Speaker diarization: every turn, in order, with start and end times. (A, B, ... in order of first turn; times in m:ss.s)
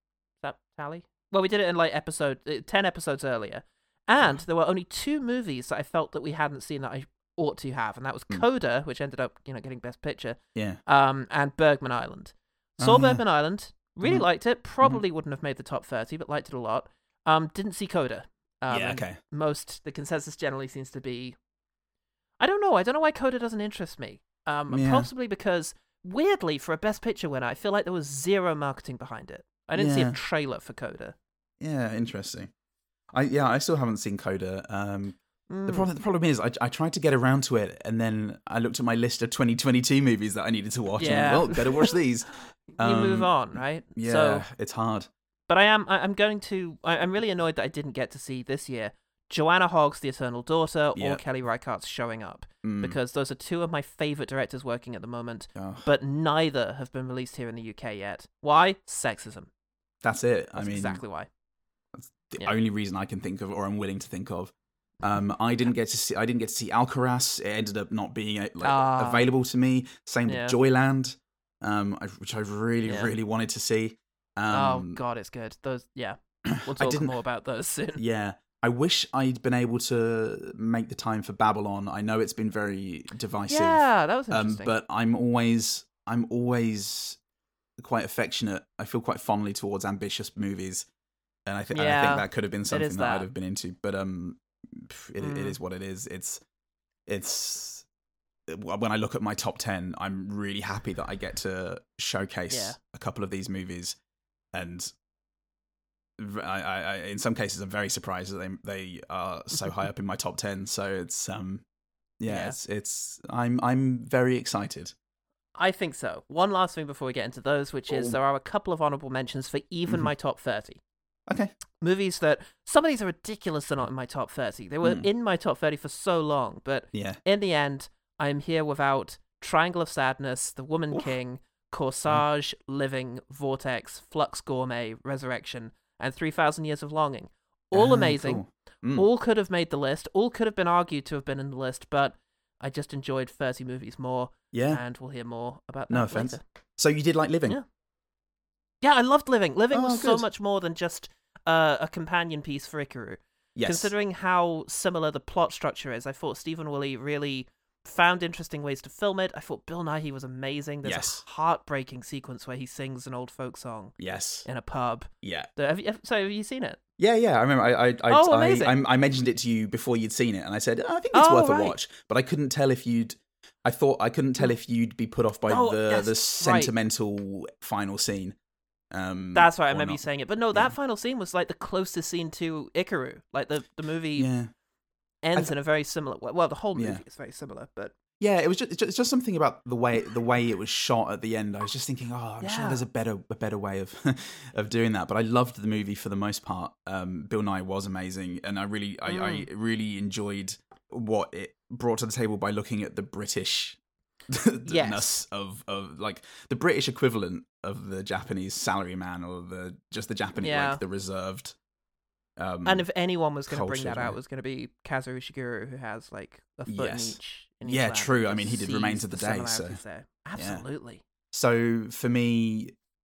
0:00.4-0:21.4 A
0:10.5-0:10.8 B
0:12.8-0:13.2 B
0:14.0-0:14.2 B
0:18.7-0:19.2 B
0:22.4-0:31.2 A
0:24.7-0:25.1 B
0:29.7-0:30.2 B
0:31.6-0:32.5 B
0:33.1-0:45.1 B
0:35.5-0:35.9 A
0:41.0-0:41.9 A
0:42.7-0:44.4 A
0:45.5-0:59.5 A
0:51.0-0:51.2 B
0:52.6-0:53.0 B
0:55.5-0:55.9 B
1:00.0-1:01.0 B
1:00.6-1:01.3 A
1:01.9-1:15.0 B
1:08.6-1:09.3 A
1:10.2-1:10.6 A
1:12.8-1:13.1 A
1:14.5-1:18.0 A
1:16.6-1:17.1 B
1:18.0-1:27.2 B
1:23.5-1:24.7 A
1:27.8-1:30.9 B
1:31.4-1:36.4 B
1:31.7-1:33.3 A
1:35.2-1:35.6 A
1:37.1-1:37.8 B
1:38.5-1:44.0 B
1:42.5-1:42.8 A
1:44.5-1:44.9 B
1:46.2-1:51.6 B
1:52.2-1:54.9 B
1:52.3-1:52.6 A
1:55.6-2:00.8 A
1:57.9-1:58.2 B
2:01.3-2:01.5 B
2:01.8-2:26.4 A
2:04.8-2:05.1 B
2:06.9-2:07.2 B
2:17.7-2:19.1 B
2:24.5-2:24.8 B
2:25.9-2:27.6 B
2:28.8-2:46.8 A
2:29.7-2:30.2 B
2:33.6-2:33.9 B
2:40.8-2:41.2 B
2:44.0-2:44.5 B
2:45.2-2:45.5 B
2:47.0-2:58.4 B
2:48.1-2:48.8 A
2:51.1-2:51.8 A
2:55.5-2:56.7 A
2:58.9-3:00.7 B
2:59.3-3:04.3 A
3:04.2-3:04.5 B
3:05.2-3:07.9 A
3:06.7-3:07.0 B
3:08.2-3:31.6 B
3:12.4-3:12.8 A
3:19.1-3:19.5 A
3:24.6-3:25.1 A
3:30.4-3:30.8 A
3:32.4-3:32.9 B
3:32.6-3:41.0 A
3:33.5-3:34.2 B
3:36.6-3:39.8 B
3:40.4-3:40.6 B
3:41.3-3:42.7 B